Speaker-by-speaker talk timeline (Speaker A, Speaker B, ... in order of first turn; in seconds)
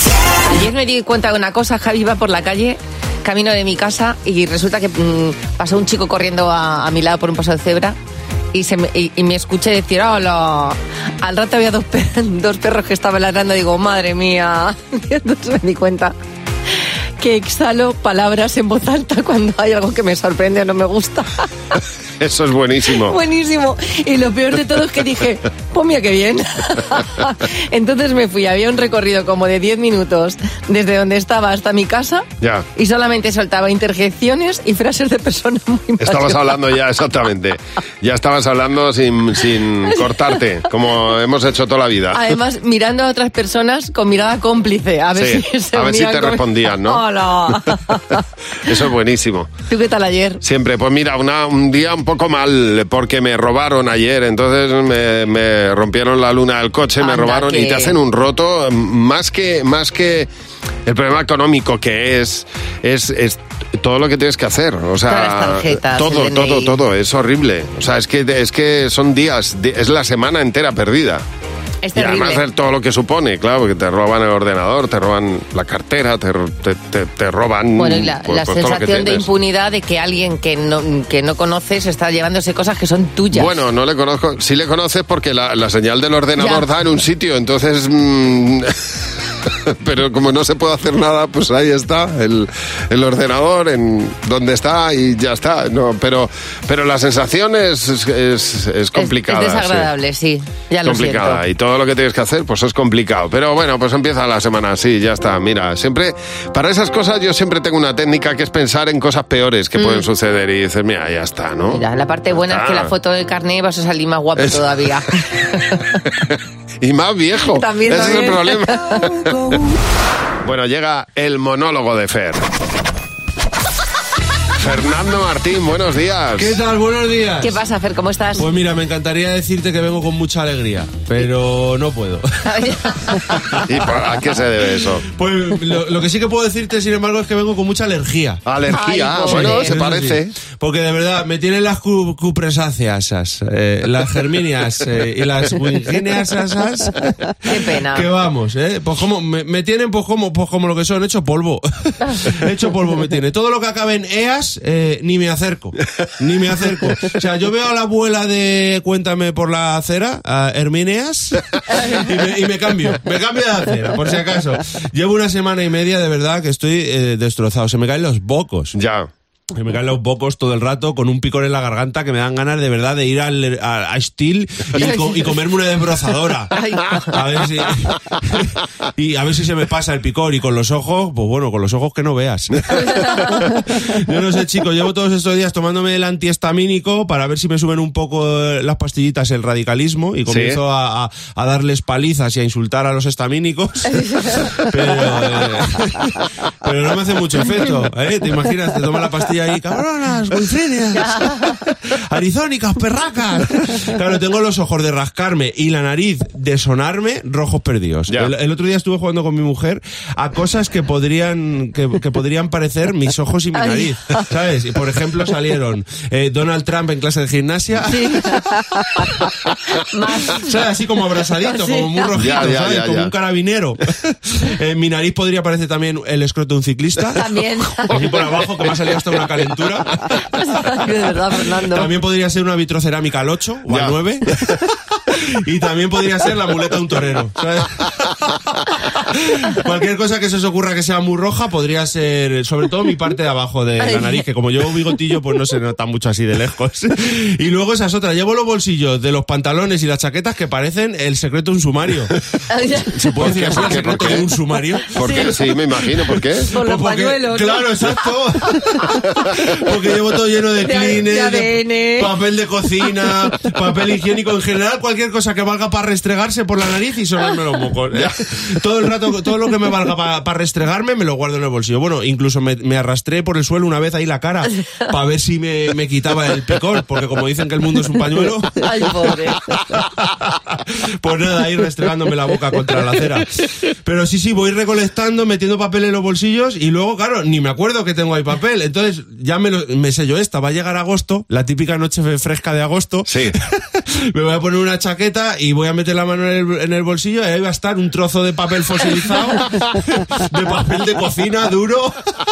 Speaker A: 0.4-8.0, 8.5-16.1, 17.2-21.4, 23.1-36.5, 42.1-48.2, 49.7-50.4, 57.0-58.0, 65.1-66.8, 71.8-72.4, 77.8-83.5, 86.4-86.6, 99.0-101.4, 109.8-110.0, 111.7-115.8, 117.5-119.0, 127.4-128.4, 132.4-133.6, 138.7-139.7, 147.4-148.1, 174.8-175.3, 176.5-177.2, 193.9-194.6, 200.9-201.6, 213.5-214.2, 217.9-218.6, 219.9-220.4, 221.4-222.2, 227.2-228.1, 230.3-231.9, 243.8-244.2, 252.5-253.9, 255.0-255.3, 256.5-257.7, 260.6-262.1, 278.6-279.4
Speaker B: 22.2-23.2, 32.4-32.6, 36.0-42.2, 45.1-47.0, 48.6-49.5, 50.4-60.3, 60.9-71.2, 71.9-79.3, 83.3-88.7, 89.5-99.9, 100.8-111.8, 112.3-112.9, 116.8-119.3, 120.4-122.5, 124.6-126.6, 133.7-135.0, 138.5-140.3, 168.7-169.1, 190.3-190.6, 222.2-223.1, 233.7-233.9, 253.2-254.3, 255.0-256.5, 293.1-293.3
Speaker C: 126.4-127.6, 128.4-132.2, 135.1-138.4, 139.2-168.8, 169.5-176.5, 177.1-218.4, 220.3-227.2, 227.9-229.9, 231.7-234.4, 235.1-237.9, 239.1-252.1, 253.0-258.9, 259.4-279.2, 279.7-302.1